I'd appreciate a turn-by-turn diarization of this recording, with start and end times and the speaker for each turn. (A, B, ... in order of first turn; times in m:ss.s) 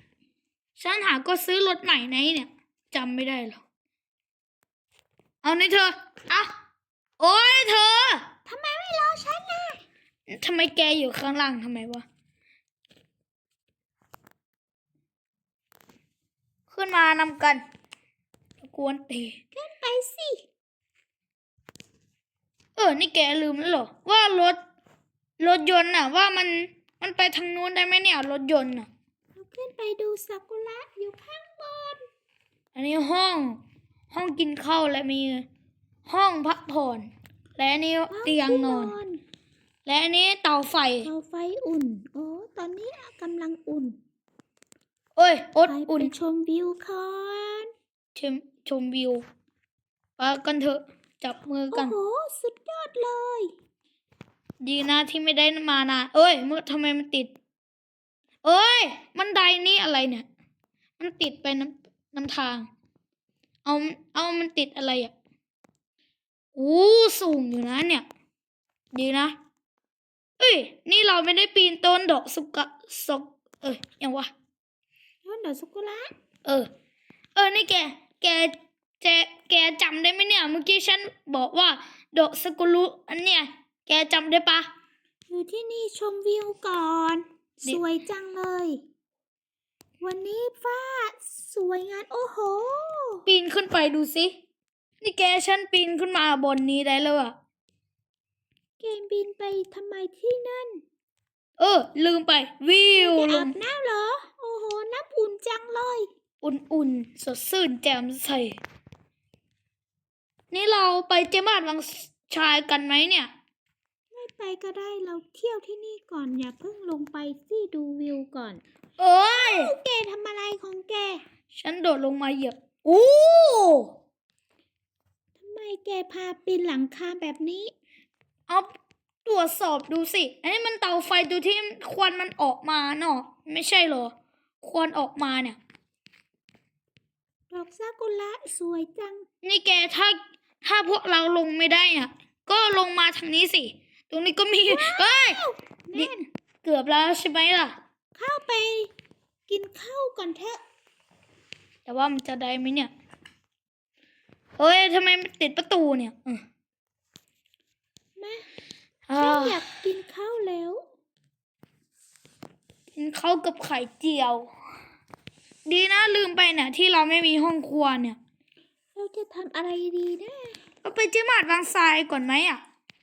0:00.8-0:03.6 A
0:05.4-0:06.5 A
0:07.2-0:08.3 A
0:08.4-0:09.8 B
0:10.3-0:12.0 A
0:16.7-0:17.6 A
0:18.6-0:19.4 A
0:19.5-0:20.4 B
0:22.8-0:24.6 A
0:25.4-0:28.9 A
0:29.3-0:32.0 B
0:32.7-0:33.6 A
0:34.1-0:35.4 A
0:36.0-0:38.9 A
0:38.1-0:39.2 B
0:39.8-0:41.1 A
0:41.0-0:44.0 B
0:45.2-0:46.1 A
0:45.6-0:47.7 B
0:48.1-0:49.2 A
0:50.2-0:51.9 A
0:51.7-0:53.5 B
0:54.6-0:57.3 A
0:58.4-1:00.2 A
1:01.0-1:02.7 A
1:03.6-1:05.1 A
1:06.6-1:08.0 A
1:08.9-1:09.3 A
1:10.4-1:14.3 A
1:15.2-1:16.1 B
1:17.3-1:24.7 A
1:25.3-1:28.8 B
1:30.0-1:33.2 B
1:33.2-1:34.3 A
1:35.0-1:37.4 A
1:38.8-1:40.8 B
1:41.6-1:43.5 A
1:42.9-1:46.1 B
1:46.4-1:48.6 A
1:50.5-1:53.3 A
1:54.1-1:58.6 B
1:59.0-1:59.7 A
1:59.3-2:01.2 B
2:01.5-2:03.9 A
2:05.4-2:07.7 B
2:09.2-2:15.6 A
2:17.5-2:19.2 B
2:19.4-2:25.4 A
2:24.7-2:26.2 B
2:25.9-2:27.8 A
2:28.2-2:28.9 B
2:29.5-2:30.6 B
2:31.8-2:32.9 A
2:34.6-2:36.4 A
2:38.2-2:38.4 B
2:39.1-2:39.7 A
2:39.2-2:40.8 B
2:42.9-2:44.5 A
2:45.6-2:48.2 A
2:48.9-2:50.6 B
2:50.8-2:52.6 A